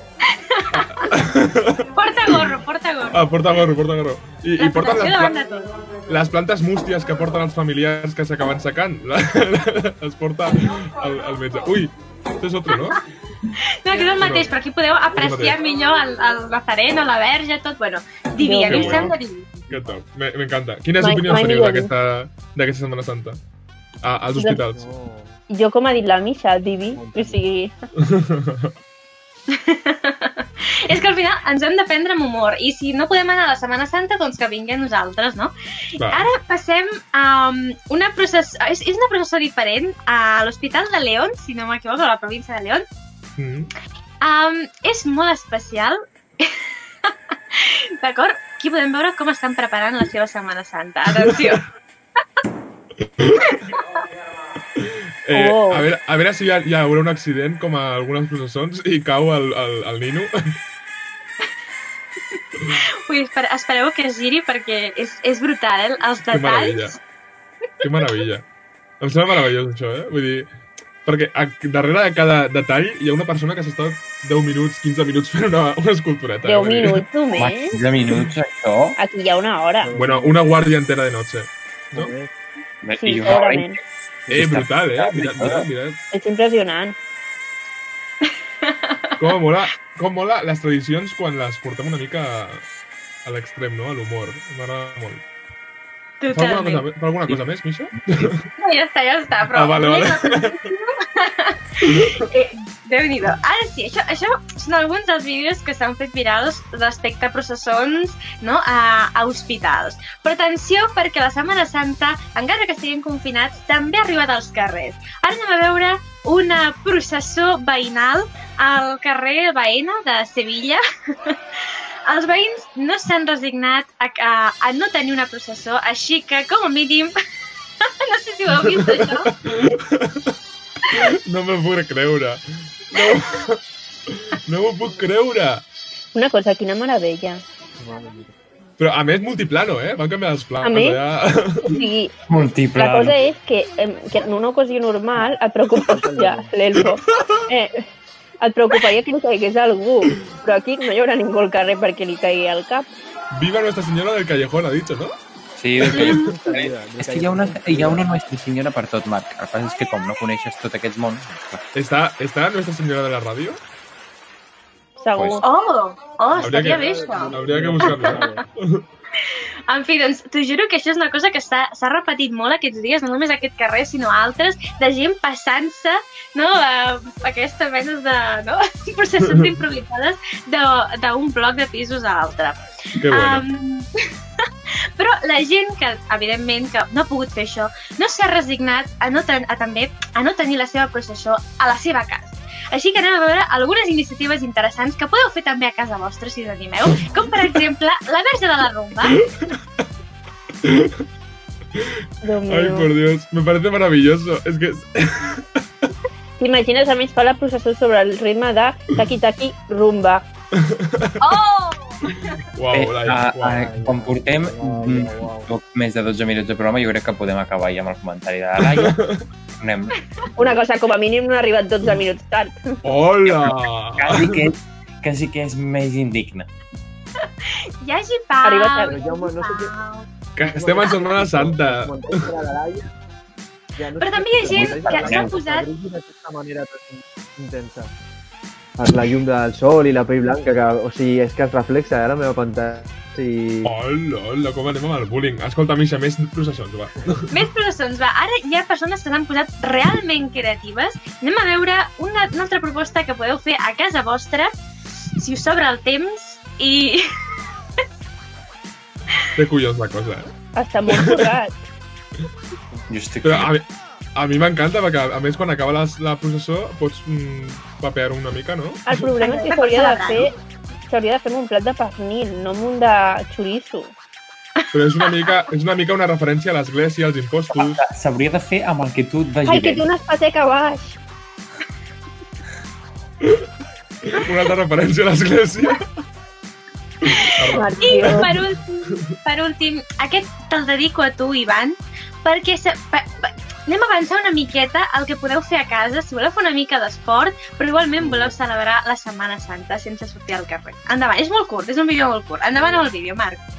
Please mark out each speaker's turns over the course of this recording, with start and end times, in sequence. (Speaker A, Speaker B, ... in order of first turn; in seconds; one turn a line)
Speaker A: 0.3-1.1
Speaker B: 0.7-2.6
Speaker A: 2.0-3.3
Speaker B: 3.1-5.3
Speaker A: 4.6-5.7
Speaker B: 6.1-13.0
Speaker A: 13.8-19.7
Speaker B: 14.2-14.5
Speaker B: 15.2-15.6
Speaker C: 18.4-19.1
Speaker B: 18.6-19.1
Speaker B: 19.7-23.4
Speaker D: 19.7-20.0
Speaker C: 21.0-21.9
Speaker B: 24.0-24.9
Speaker D: 24.7-25.4
Speaker C: 25.5-27.7
Speaker D: 26.9-27.4
Speaker B: 28.0-28.7
Speaker A: 29.5-42.9
Speaker B: 36.0-36.3
Speaker B: 43.4-43.7
Speaker A: 44.2-51.7
Speaker B: 51.3-51.6
Speaker B: 53.0-53.6
Speaker B: 54.8-60.3
Speaker C: 55.3-55.9
Speaker A: 62.3-67.0
Speaker B: 66.3-67.0
Speaker A: 67.8-68.2
Speaker B: 67.8-68.5
Speaker B: 69.0-70.5
Speaker B: 71.0-77.0
Speaker C: 76.4-77.8
Speaker E: 77.3-79.0
Speaker C: 79.0-79.9
Speaker D: 79.8-80.5
Speaker B: 79.9-82.1
Speaker D: 81.9-82.3
Speaker E: 82.8-85.7
Speaker C: 83.0-83.8
Speaker B: 84.3-86.0
Speaker C: 86.1-87.0
Speaker A: 88.3-89.2
Speaker B: 89.2-92.6
Speaker B: 93.2-95.2
Speaker A: 96.2-96.9
Speaker B: 96.3-98.5
Speaker A: 98.6-121.4
Speaker B: 99.5-100.7
Speaker B: 101.8-102.3
Speaker A: 122.1-127.1
Speaker A: 127.8-129.3
Speaker B: 128.6-130.4
Speaker B: 130.9-135.6
Speaker C: 136.1-137.4
Speaker D: 137.8-138.3
Speaker B: 138.8-141.7
Speaker C: 140.6-141.0
Speaker E: 141.7-143.2
Speaker C: 141.7-142.1
Speaker C: 142.8-147.9
Speaker D: 145.2-146.6
Speaker C: 148.4-152.9
Speaker B: 153.3-155.1
Speaker E: 155.6-161.7
Speaker D: 155.9-158.1
Speaker B: 155.9-156.2
Speaker B: 161.8-163.6
Speaker C: 165.0-165.4
Speaker E: 165.2-165.4
Speaker A: 165.4-168.3
Speaker D: 166.3-168.4
Speaker B: 166.4-168.8
Speaker A: 169.2-199.2
Speaker B: 179.3-179.5
Speaker B: 183.0-183.5
Speaker B: 197.0-197.6
Speaker B: 199.1-199.6
Speaker B: 200.6-201.1
Speaker B: 201.8-205.6
Speaker C: 202.2-202.9
Speaker C: 206.4-210.2
Speaker B: 210.5-211.3
Speaker A: 211.2-212.4
Speaker B: 212.1-213.6
Speaker E: 212.7-219.0
Speaker D: 213.4-215.5
Speaker B: 218.6-219.2
Speaker E: 219.6-220.0
Speaker C: 220.4-222.8
Speaker B: 222.8-224.5
Speaker E: 223.2-226.5
Speaker A: 227.2-230.1
Speaker C: 228.4-229.0
Speaker D: 228.8-229.7
Speaker B: 230.4-232.1
Speaker D: 230.4-232.9
Speaker D: 233.8-237.9
Speaker A: 234.0-235.7
Speaker E: 234.5-235.3
Speaker D: 238.8-243.7
Speaker B: 243.6-247.4
Speaker A: 247.3-254.5
Speaker A: 255.2-257.1
Speaker B: 259.4-260.3
Speaker C: 260.5-261.6
Speaker B: 260.9-261.2
Speaker E: 262.9-263.5
Speaker B: 263.2-268.9
Speaker C: 268.9-270.3
Speaker A: 269.2-270.3
Speaker C: 270.9-273.9
Speaker A: 274.6-275.3
Speaker B: 274.7-277.8
Speaker E: 277.5-279.9
Speaker C: 279.5-281.0
Speaker B: 283.2-283.5
Speaker B: 284.0-285.9
Speaker B: 287.1-289.1
Speaker A: 287.1-303.4
Speaker C: 287.5-288.3
Speaker D: 298.0-298.4
Speaker D: 302.6-302.9